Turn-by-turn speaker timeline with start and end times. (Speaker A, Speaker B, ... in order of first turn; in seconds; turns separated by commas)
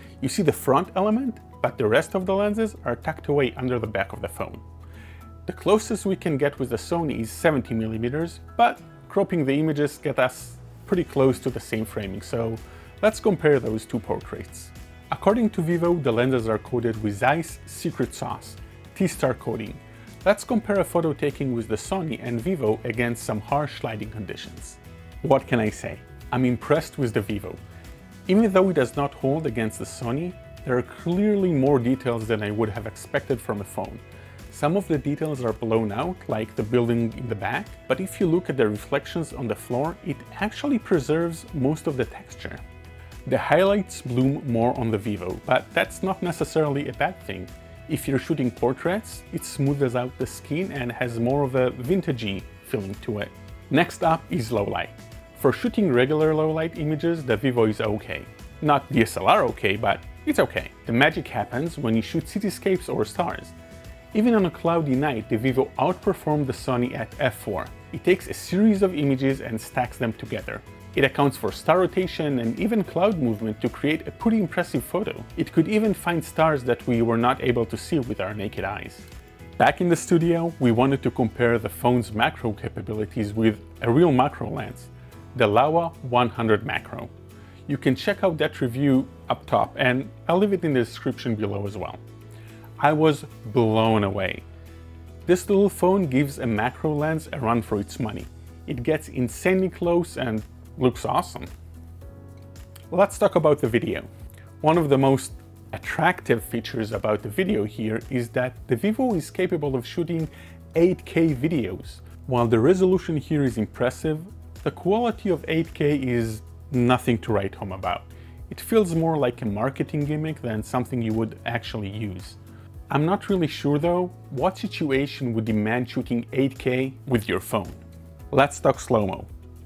Speaker A: 0.2-4.6, Speaker A: 5.5-27.6, Speaker A: 28.3-42.6, Speaker A: 43.2-63.5, Speaker A: 64.1-79.0, Speaker A: 79.6-87.1, Speaker A: 87.7-92.0, Speaker A: 92.8-94.4, Speaker A: 95.2-101.5, Speaker A: 102.9-104.1, Speaker A: 104.6-122.4, Speaker A: 122.9-129.3